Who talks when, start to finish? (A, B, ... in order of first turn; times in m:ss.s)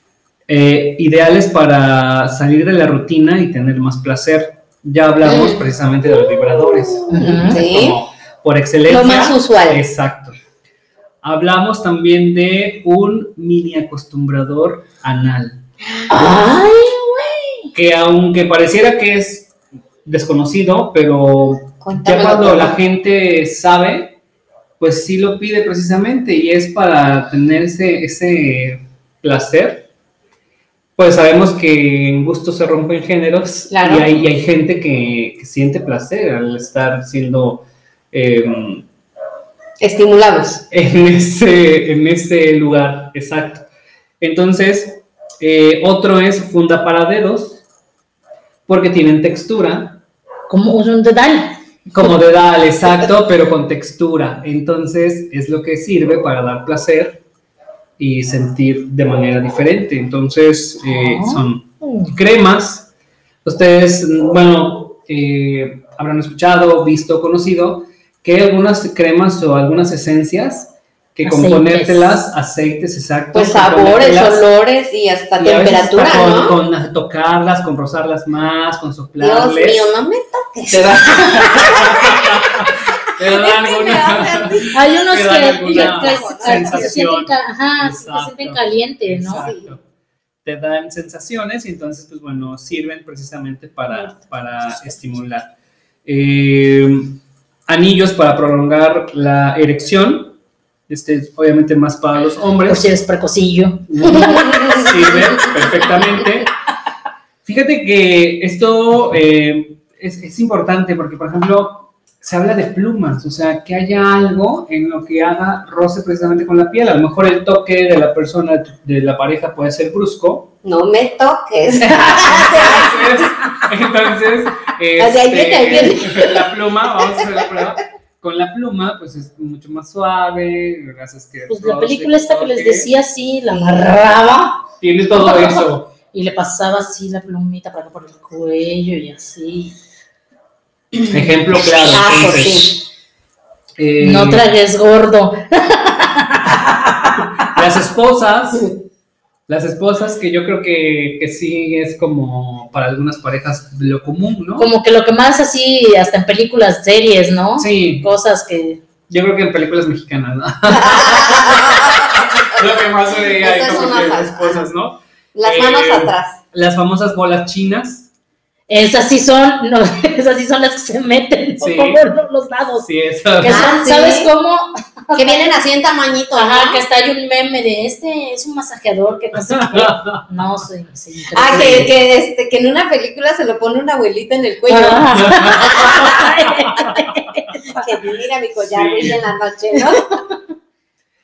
0:00.5-0:10.3 A
0:05.2-0:05.6 B
0:07.1-0:07.6 C
0:07.2-0:08.0 B
0:08.9-0:09.8 B
0:11.2-0:15.6 A
0:15.8-0:16.4 B
0:16.1-0:17.7 C
0:17.7-0:19.5 A
0:20.0-0:24.2 A
0:21.8-0:22.8 B
0:24.8-0:29.9 A
0:31.0-0:38.8 A
0:33.7-0:34.1 B
0:39.8-0:40.6 B
0:40.7-0:43.6 A
0:44.2-0:47.6 A
0:48.7-0:50.0 A
0:50.5-0:51.6 C
0:51.9-0:57.2 A
0:58.0-1:02.9 A
1:00.8-1:02.1 C
1:03.4-1:14.4 A
1:11.2-1:12.2 C
1:13.3-1:16.6 B
1:15.4-1:19.8 A
1:19.2-1:27.0 B
1:20.7-1:29.8 A
1:24.7-1:29.5 C
1:29.4-1:29.7 B
1:30.4-1:35.5 A
1:33.9-1:35.0 C
1:36.0-1:40.4 A
1:40.9-1:42.8 A
1:42.7-1:44.7 C
1:43.9-1:46.5 A
1:47.4-2:00.5 A
2:00.6-2:03.5 B
2:01.7-2:12.9 A
2:05.0-2:06.5 B
2:07.2-2:07.4 B
2:11.5-2:14.6 C
2:13.5-2:13.9 B
2:14.8-2:15.9 A
2:15.2-2:19.8 C
2:21.1-2:22.8 A
2:21.8-2:22.8 B
2:23.8-2:24.5 A
2:24.0-2:27.2 C
2:27.4-2:28.7 A
2:29.5-2:34.7 A
2:34.6-2:38.8 C
2:37.6-2:38.1 A
2:39.1-2:48.1 A
2:40.8-2:42.6 B
2:43.2-2:44.7 B
2:45.3-2:46.4 B
2:48.7-2:52.9 C
2:51.6-2:52.0 A
2:52.8-2:53.7 A
2:53.4-2:55.5 C
2:53.4-2:54.3 B
2:55.2-2:56.8 B
2:56.3-3:01.9 C
2:59.6-3:00.2 A
3:01.3-3:06.3 B
3:01.5-3:01.9 A
3:04.7-3:07.8 C
3:05.2-3:05.7 A
3:07.6-3:10.0 B
3:08.7-3:09.2 A